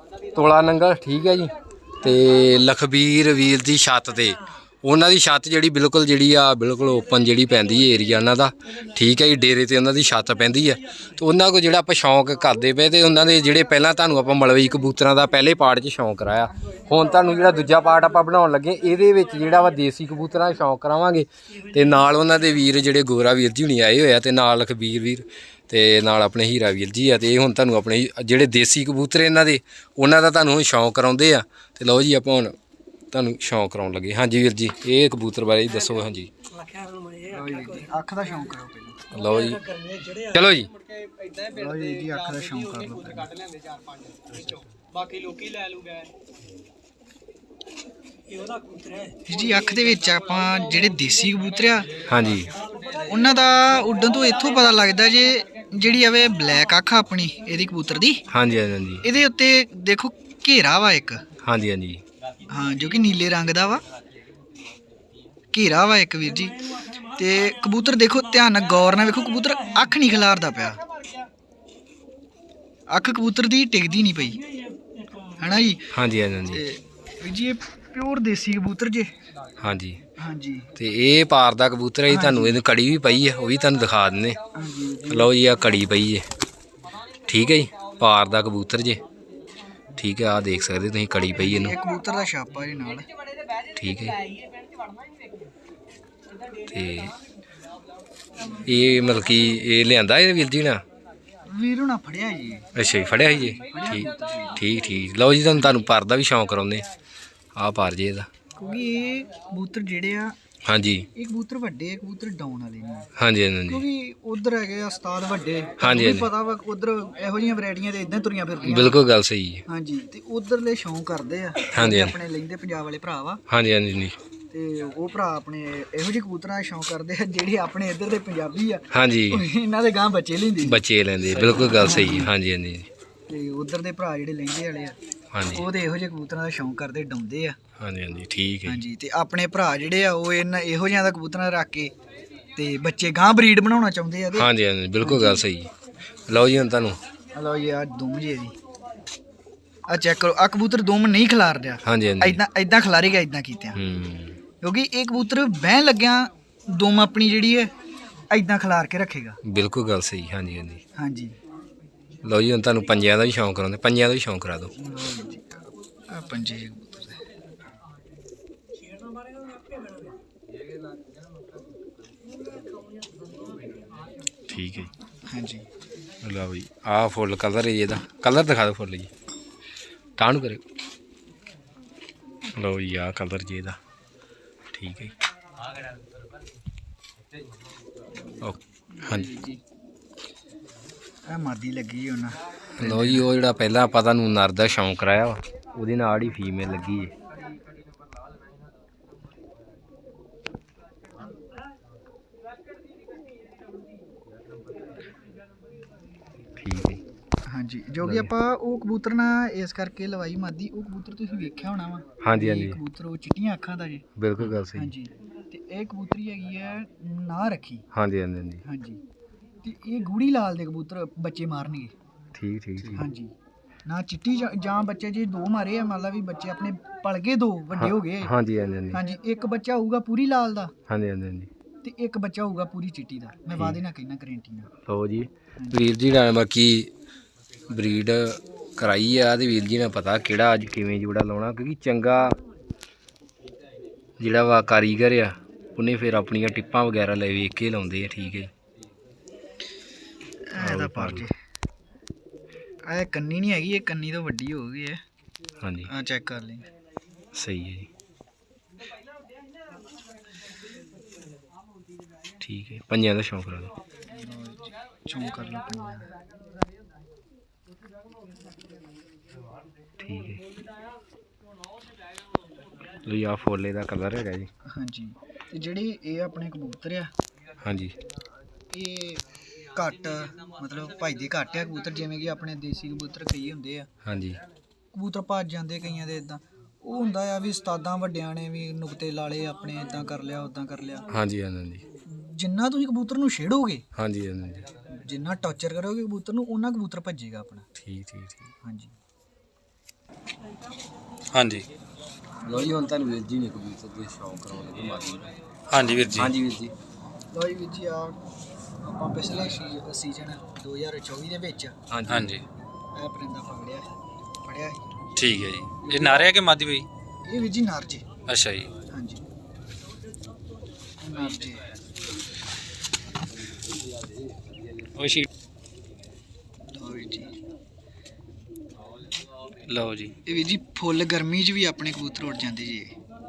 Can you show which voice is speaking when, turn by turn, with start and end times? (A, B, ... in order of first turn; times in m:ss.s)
0:00.3-0:32.6 A
0:33.1-0:36.3 A
0:36.7-0:37.2 B
0:37.2-0:39.0 C
0:39.1-0:39.6 A
0:40.2-0:40.7 A
0:41.4-0:43.4 C
0:45.1-0:45.9 B
0:48.5-0:49.0 B
0:49.2-0:52.0 C
0:52.1-0:52.5 A
0:53.0-0:58.2 C
0:58.3-0:59.0 A
0:59.0-1:01.2 C
1:01.4-1:02.0 A
1:02.5-1:03.8 C
1:05.5-1:10.8 C
1:12.9-1:14.4 C
1:15.4-1:15.9 C
1:15.9-1:16.6 A
1:16.5-1:19.1 C
1:19.6-1:20.0 A
1:20.2-1:20.7 C
1:20.8-1:24.4 A
1:22.1-1:22.6 C
1:24.5-1:25.3 C
1:25.1-1:26.2 A
1:27.3-1:29.0 A
1:30.0-1:31.8 A
1:31.4-1:33.1 C
1:33.7-1:34.2 A
1:36.7-1:37.1 A
1:38.6-1:40.8 A
1:41.5-1:42.7 C
1:42.7-1:46.9 A
1:43.5-1:44.6 C
1:47.6-1:48.3 A
1:48.6-1:50.3 C
1:50.7-1:51.1 A
1:51.1-1:53.1 C
1:53.2-1:53.8 A
1:53.7-1:59.0 C
1:55.8-1:56.3 A
1:58.6-1:59.6 A
1:59.7-2:03.4 C
2:01.7-2:02.1 A
2:03.5-2:04.2 A
2:04.5-2:12.3 C
2:08.9-2:09.4 A
2:10.6-2:12.9 A
2:13.3-2:15.0 C
2:15.3-2:15.7 A
2:15.5-2:17.6 C
2:17.8-2:18.8 A
2:18.6-2:21.9 C
2:22.6-2:25.4 C
2:24.3-2:25.7 A
2:26.3-2:27.0 A
2:27.3-2:28.5 C
2:29.9-2:33.8 C
2:31.8-2:32.4 A
2:33.7-2:34.4 A
2:34.6-2:37.7 C
2:38.3-2:39.4 C
2:39.4-2:40.8 A
2:41.0-2:41.4 C
2:42.2-2:44.7 A
2:44.8-2:47.2 C
2:49.5-2:50.0 B
2:54.5-2:54.9 A
2:55.3-2:55.6 C
2:56.2-2:59.1 A
3:00.2-3:00.6 A
3:02.5-3:03.8 A
3:04.7-3:05.1 A
3:08.4-3:09.3 A
3:08.9-3:09.6 C
3:11.3-3:13.3 C
3:12.8-3:17.1 A
3:26.6-3:27.0 A
3:27.4-3:37.8 C
3:28.0-3:28.3 A
3:32.2-3:32.8 A
3:34.2-3:34.9 A
3:37.9-3:38.6 A
3:38.6-3:39.0 C
3:39.6-3:41.9 C
3:42.3-3:43.0 A
3:42.9-3:43.3 C
3:43.8-3:48.3 C
3:47.8-3:49.0 A
3:48.9-3:50.7 C
3:50.9-3:51.5 A
3:51.8-3:54.7 C
3:54.8-3:56.9 A
3:57.7-4:02.4 A
4:04.2-4:08.5 A
4:10.5-4:11.3 C
4:10.6-4:11.3 A
4:12.8-4:15.0 C
4:15.6-4:15.9 A
4:15.9-4:16.7 C
4:17.3-4:17.9 A
4:22.4-4:23.7 A
4:24.1-4:26.1 C
4:30.0-4:30.4 A
4:33.0-4:34.5 A
4:34.7-4:37.1 C
4:37.6-4:37.9 A
4:38.7-4:43.9 C
4:44.0-4:44.4 A
4:44.9-4:51.1 C
4:51.1-4:51.8 A
4:52.0-4:53.8 C
4:53.9-4:54.6 A
4:55.0-4:57.6 C
4:57.8-4:58.5 A
4:58.6-4:58.9 C
5:01.3-5:01.7 D
5:02.4-5:05.3 A
5:05.7-5:06.3 D
5:06.1-5:06.7 A
5:07.3-5:08.2 C
5:08.8-5:11.8 C
5:11.9-5:12.3 A
5:12.1-5:12.4 D
5:13.0-5:13.9 C
5:14.4-5:15.0 C
5:15.2-5:16.9 D
5:15.8-5:16.3 C
5:17.2-5:18.0 C
5:18.3-5:18.7 D
5:18.9-5:19.2 C
5:21.0-5:21.6 C
5:25.0-5:25.3 D
5:26.7-5:27.3 C
5:29.7-5:30.2 D
5:30.2-5:32.9 C